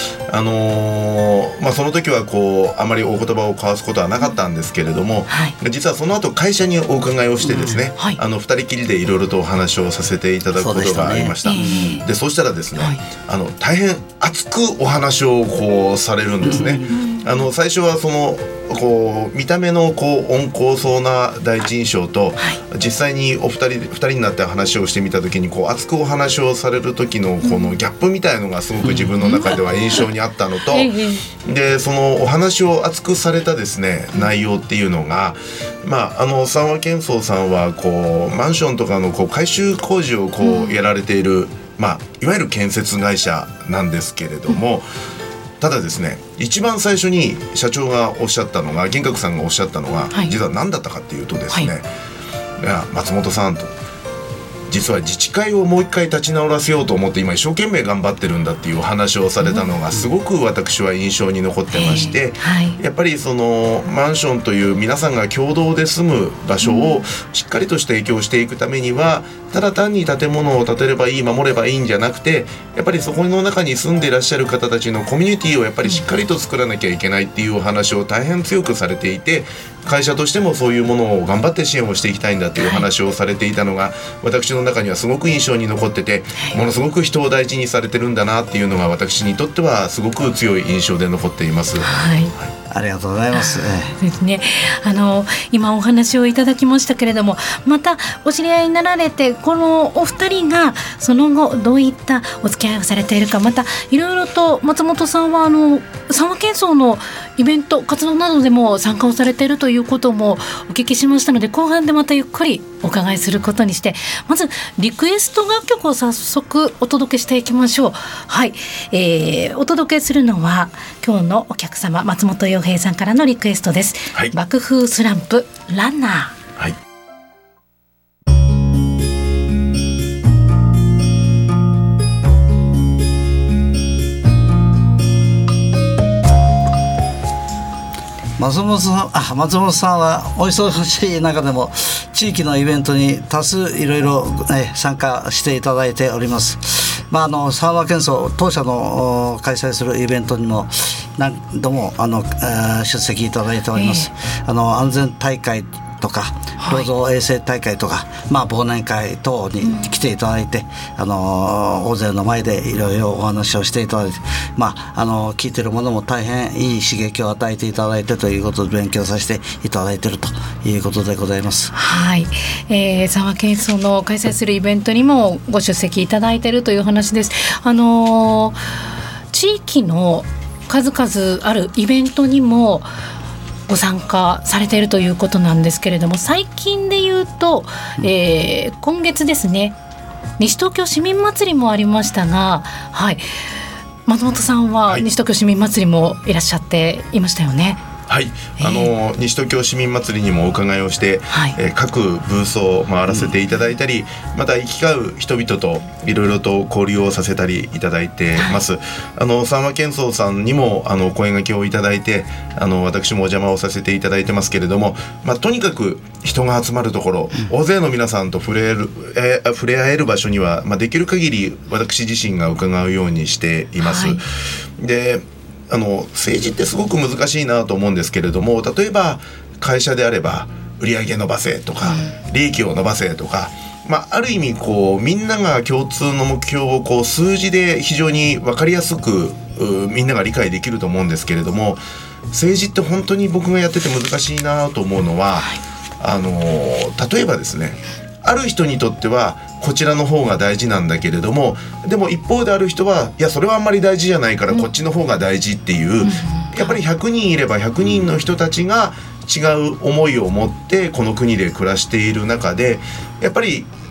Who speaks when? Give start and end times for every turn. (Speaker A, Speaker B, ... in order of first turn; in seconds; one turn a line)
Speaker A: 0.3-44.9
Speaker B: 5.3-5.5
Speaker C: 7.4-7.8
Speaker C: 10.6-11.9
Speaker B: 11.4-12.0
Speaker C: 16.4-16.9
Speaker B: 27.4-27.8
Speaker B: 29.2-30.1
Speaker B: 30.7-31.2
Speaker B: 40.4-40.8
Speaker A: 45.6-51.9
Speaker A: 52.6-53.7
Speaker A: 54.7-92.5
Speaker B: 61.7-62.8
Speaker B: 66.6-67.0
Speaker B: 82.6-82.9
Speaker B: 91.8-92.3
Speaker C: 92.7-94.0
Speaker B: 93.3-126.3
Speaker C: 138.4-171.7
Speaker B: 153.7-154.1
Speaker B: 156.6-156.9
Speaker B: 159.6-159.9
Speaker B: 171.7-178.6
Speaker B: 179.3-182.9
Speaker B: 183.7-189.8
Speaker B: 190.4-193.3
Speaker B: 194.1-197.8
Speaker A: 198.1-224.2
Speaker B: 198.6-198.9
Speaker B: 201.3-201.6
Speaker B: 223.8-224.2
Speaker A: 224.8-263.7
Speaker B: 231.8-232.1
Speaker B: 256.0-256.8